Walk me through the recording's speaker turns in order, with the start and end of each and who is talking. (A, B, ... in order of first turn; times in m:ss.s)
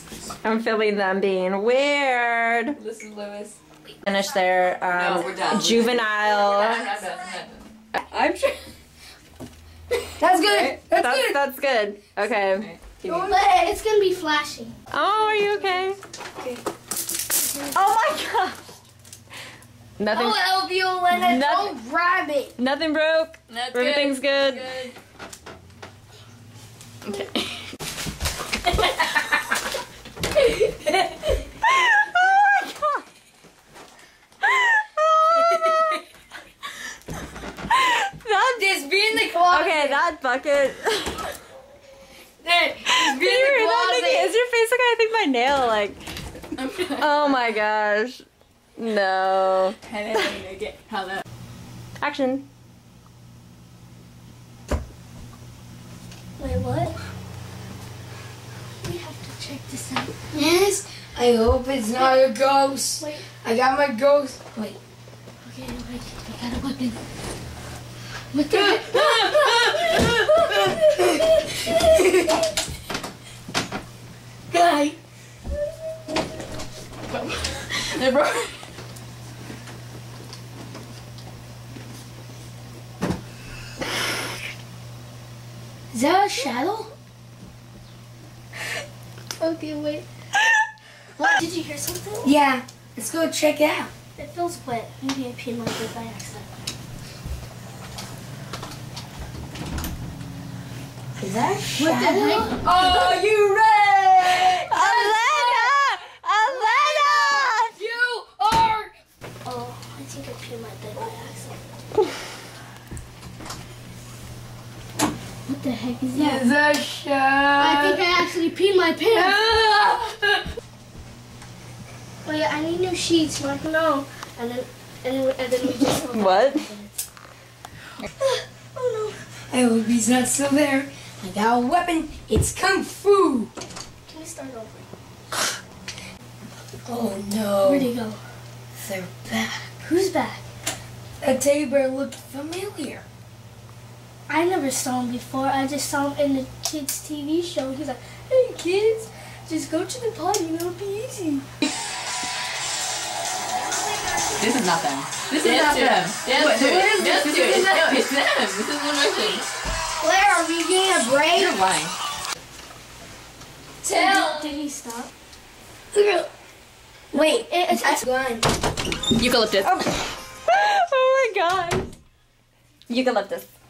0:00.4-0:02.8 A
0:02.8-0:03.6 B
0:04.0-0:06.9 A
0:04.9-0:08.6 B
0:10.2-0:11.4 C
0:10.4-0:10.8 B
0:10.9-0:13.2 A
0:13.0-0:13.7 C
0:13.0-0:14.8 D
0:14.9-0:16.0 A
0:17.7-0:18.6 A
0:20.0-0:20.5 A
0:20.1-0:22.5 C
0:21.1-0:21.8 A
0:22.6-0:24.7 A
0:23.5-0:24.9 B
0:27.0-0:27.4 B
0:31.6-0:33.0 A
0:34.4-0:36.0 A
0:37.8-0:41.3 A
0:38.4-0:40.0 C
0:42.4-0:44.3 C
0:42.8-0:46.0 A
0:46.6-0:47.3 B
0:46.9-0:48.2 A
0:48.8-0:49.8 A
0:49.8-0:51.2 B
0:52.0-0:52.5 A
0:56.4-0:57.0 D
0:58.8-1:00.1 D
1:00.3-1:04.8 C
1:03.0-1:03.2 D
1:05.4-1:07.0 D
1:08.3-1:12.3 D
1:08.5-1:12.4 C
1:14.5-1:15.0 C
1:17.1-1:18.6 B
1:25.9-1:26.9 C
1:29.4-1:30.1 D
1:31.2-1:32.3 D
1:32.2-1:33.9 C
1:34.2-1:36.5 D
1:41.2-1:45.7 C
1:41.8-1:42.7 D
1:44.3-1:47.7 A
1:46.5-1:48.9 C
1:49.4-1:51.6 D
1:55.4-1:56.4 D
1:56.1-1:58.0 C
1:57.6-1:59.4 D
1:59.1-2:00.4 C
2:02.2-2:07.0 D
2:06.1-2:06.6 A
2:08.2-2:09.2 D
2:09.5-2:13.5 C
2:14.1-2:14.9 D
2:16.8-2:17.9 C
2:17.6-2:18.2 D
2:18.8-2:19.8 C
2:19.8-2:20.4 D
2:21.2-2:23.0 C
2:24.3-2:31.4 D
2:33.7-2:34.6 C
2:34.4-2:39.5 B
2:35.4-2:38.0 C
2:40.0-2:41.6 C
2:41.3-2:42.0 B
2:43.8-2:44.5 C
2:43.9-2:45.1 D
2:45.9-2:46.3 C
2:47.1-2:48.0 D
2:47.1-2:48.5 C
2:49.1-2:49.8 B
2:49.6-2:51.9 A
2:52.9-2:53.5 A